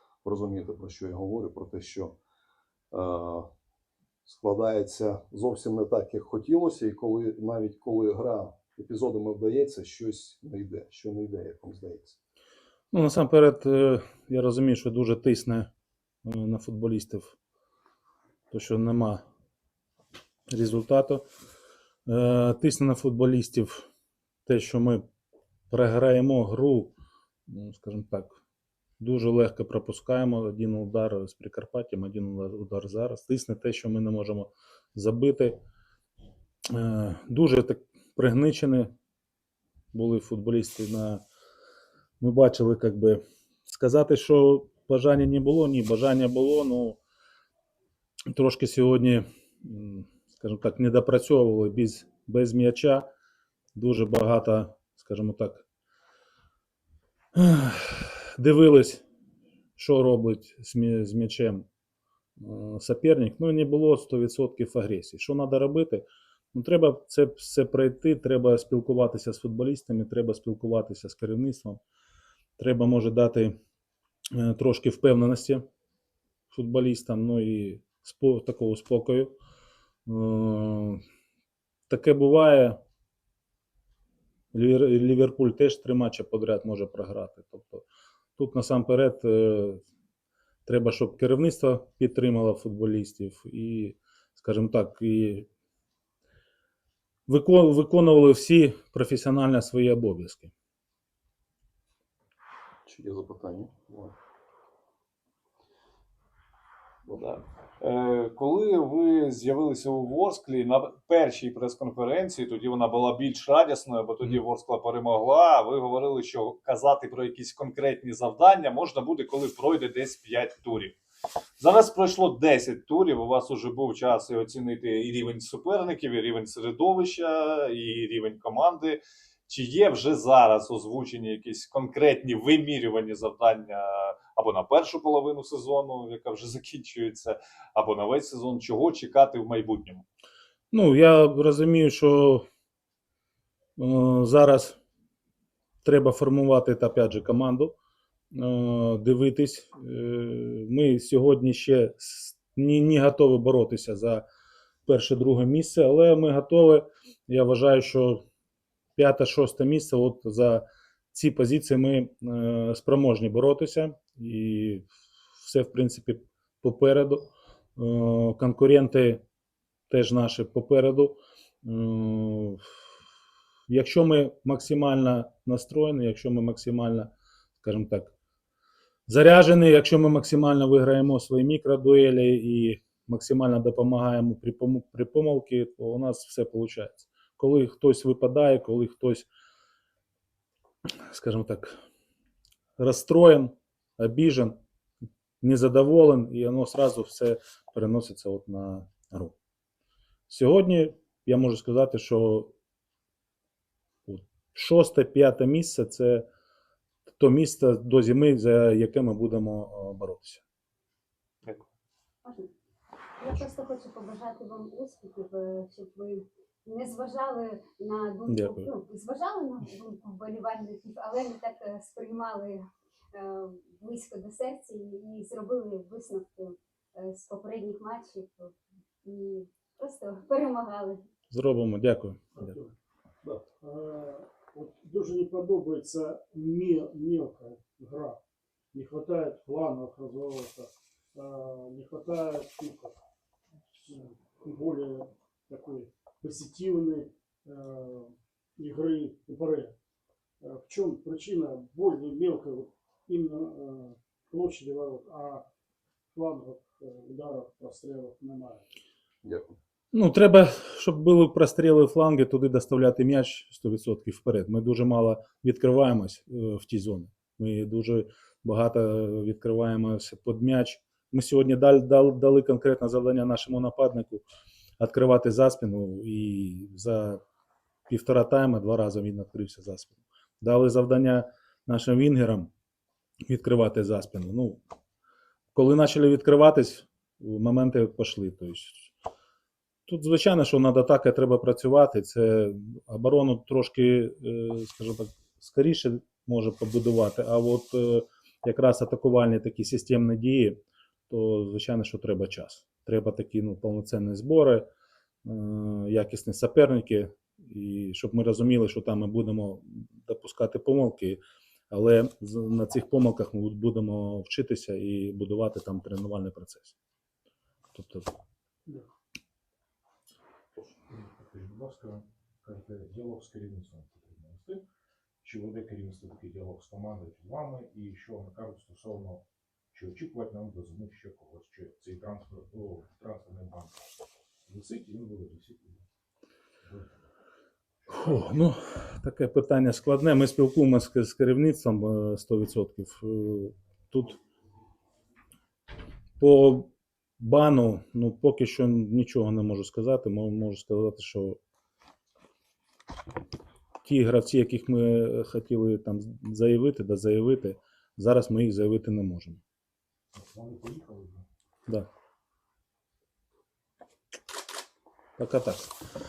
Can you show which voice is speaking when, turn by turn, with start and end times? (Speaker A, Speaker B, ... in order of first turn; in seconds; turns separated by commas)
Speaker A: 0.2-2.1, Speaker A: 2.9-3.5, Speaker A: 4.2-12.2, Speaker B: 12.9-15.7, Speaker B: 16.2-17.3, Speaker B: 18.5-19.2, Speaker B: 20.5-21.2, Speaker B: 22.1-23.9, Speaker B: 24.4-25.1, Speaker B: 25.7-26.9, Speaker B: 27.5-28.4, Speaker B: 29.0-35.6, Speaker B: 36.7-38.9, Speaker B: 39.9-41.2, Speaker B: 42.2-47.0, Speaker B: 48.3-53.0, Speaker B: 53.8-55.6, Speaker B: 57.3-59.0, Speaker B: 59.8-61.6, Speaker B: 62.4-71.8, Speaker B: 72.6-73.6, Speaker B: 74.3-75.6, Speaker B: 76.5-79.3, Speaker B: 80.0-81.0, Speaker B: 81.9-82.8, Speaker B: 84.5-87.8, Speaker B: 88.4-89.8, Speaker B: 90.7-95.5, Speaker B: 97.3-100.5, Speaker A: 102.8-104.1, Speaker C: 107.1-121.0, Speaker C: 121.6-140.0, Speaker B: 140.7-142.4, Speaker B: 143.8-144.8, Speaker B: 145.8-147.7, Speaker B: 148.3-154.2, Speaker B: 154.8-158.2, Speaker B: 158.9-164.8, Speaker B: 165.4-169.2, Speaker B: 169.9-172.6, Speaker B: 173.7-177.1, Speaker B: 177.6-178.1, Speaker B: 179.1-189.2, Speaker B: 191.1-191.7, Speaker B: 192.8-194.6, Speaker B: 195.4-199.3, Speaker B: 200.3-202.5, Speaker B: 204.1-206.2, Speaker B: 207.2-210.4, Speaker D: 212.2-212.5, Speaker D: 213.2-231.0, Speaker B: 218.3-218.7, Speaker B: 231.3-232.6, Speaker E: 232.4-232.7, Speaker E: 233.6-238.2, Speaker E: 238.7-243.0, Speaker E: 243.8-249.7, Speaker E: 250.4-255.5, Speaker E: 256.1-258.6, Speaker A: 259.2-259.5, Speaker B: 259.9-274.2, Speaker B: 274.8-277.2, Speaker B: 277.9-282.5, Speaker B: 283.3-284.6, Speaker B: 285.5-288.9, Speaker B: 289.9-300.6, Speaker B: 301.1-304.6, Speaker B: 305.2-311.2, Speaker B: 311.7-316.8, Speaker B: 317.7-318.1, Speaker F: 320.9-324.6, Speaker F: 325.2-333.8, Speaker F: 334.5-335.8, Speaker F: 336.6-336.9, Speaker F: 337.8-338.4, Speaker B: 337.9-344.2, Speaker B: 346.2-351.4, Speaker B: 353.8-359.4, Speaker F: 360.1-361.2, Speaker B: 365.2-365.8